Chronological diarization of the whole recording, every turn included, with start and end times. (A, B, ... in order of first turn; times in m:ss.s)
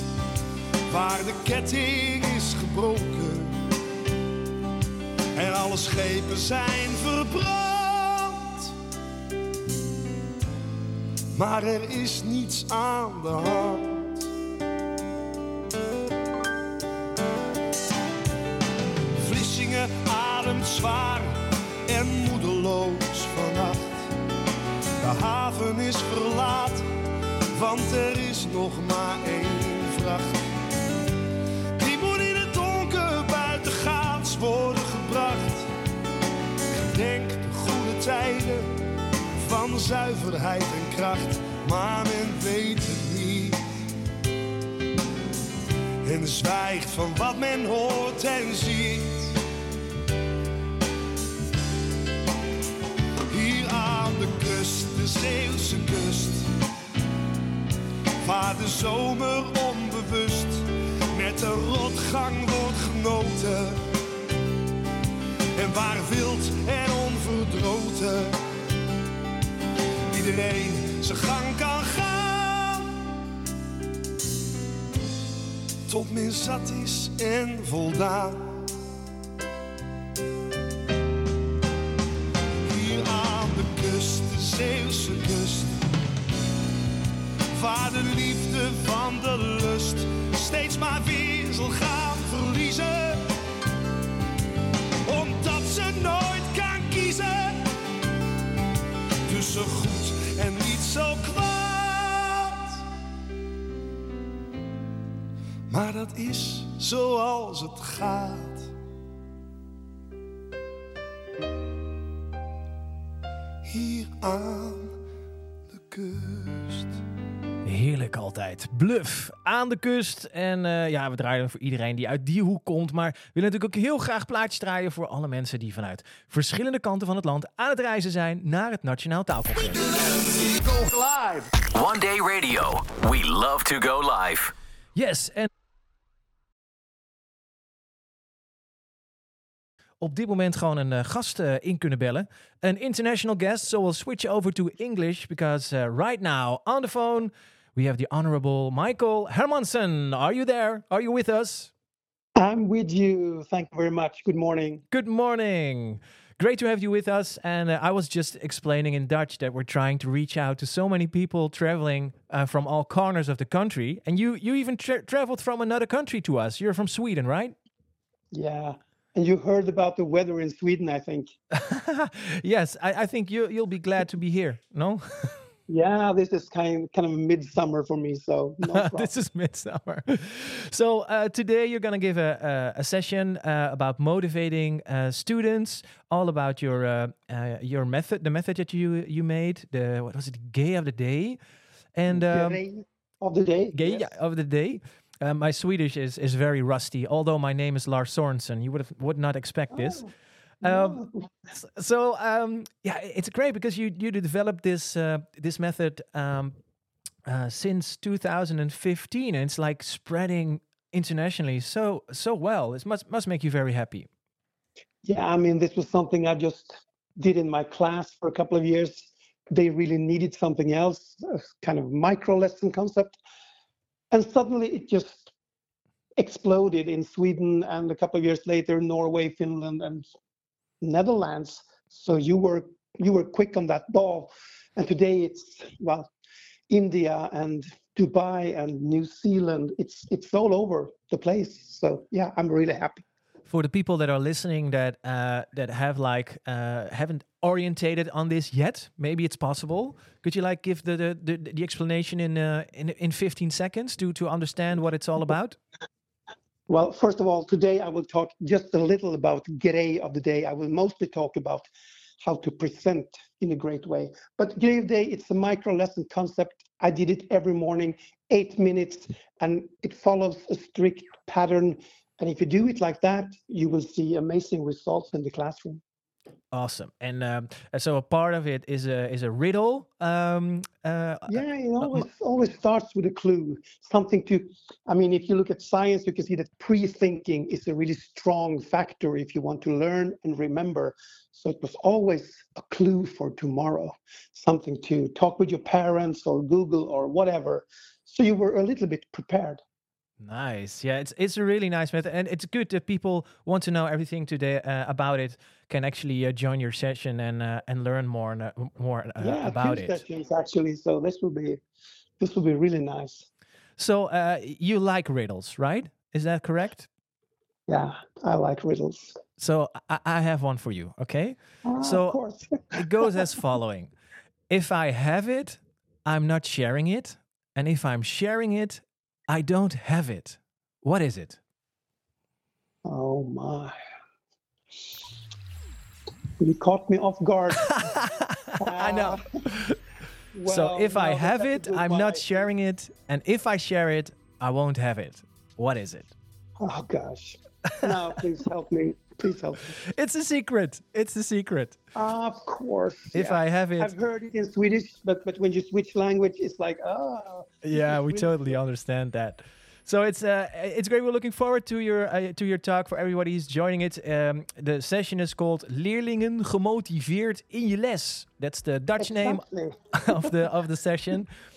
0:00.9-0:03.6 A
0:05.3-0:08.7 A
0:11.3-0:14.2 A
0:19.1-0:24.1 A
0:25.0-0:26.9 A
0:27.5-0:30.4 A
0:31.8-0:35.7 A
0:36.7-0:38.7 A
0:39.4-0:43.6 A
0:46.0-0:49.4 A
0:53.3-0:56.5 A
0:58.2-1:03.8 A
1:05.5-1:08.4 A
1:10.1-1:12.9 A
1:15.9-1:18.6 A
1:22.6-1:25.8 A
1:27.5-1:33.2 A
1:35.0-1:37.7 A
1:39.2-1:42.8 A
1:45.7-1:48.7 A
1:53.6-1:55.0 A
1:55.7-1:57.0 A
1:57.6-2:09.8 B
2:11.7-2:14.5 C
2:14.9-2:15.5 B
2:20.0-2:31.7 B
2:32.4-2:34.8 D
2:34.9-2:47.6 B
2:48.3-2:51.3 D
2:51.5-2:55.3 B
2:55.7-2:59.1 D
2:58.7-3:11.4 B
3:12.0-3:12.6 B
3:12.1-3:14.0 D
3:13.7-3:20.0 B
3:19.7-3:20.0 D
3:20.6-3:26.6 B
3:20.6-3:21.2 D
3:27.2-3:34.1 B
3:35.0-3:43.2 D
3:44.1-3:45.3 D
3:46.2-3:50.1 D
3:50.8-3:56.1 D
3:56.7-4:03.0 D
4:03.5-4:15.6 B
4:16.7-4:21.7 D
4:22.2-4:35.8 D
4:36.5-4:42.1 B
4:41.3-4:59.6 D
5:00.2-5:10.0 B
5:09.2-5:11.6 D
5:12.2-5:13.3 D
5:13.8-5:16.9 B
5:17.7-5:19.2 D
5:19.4-5:22.2 B
5:21.6-5:23.3 D
5:22.8-5:23.9 B
5:24.5-5:31.4 B
5:32.8-5:33.7 D
5:36.4-5:37.8 D
5:37.7-5:39.8 B
5:38.6-5:39.2 D
5:40.3-5:42.4 D
5:40.5-5:46.1 B
5:46.6-5:49.7 D
5:49.8-5:51.8 B
5:52.0-5:58.4 D
5:53.1-5:53.9 B
5:57.6-6:11.3 B
6:09.0-6:10.4 D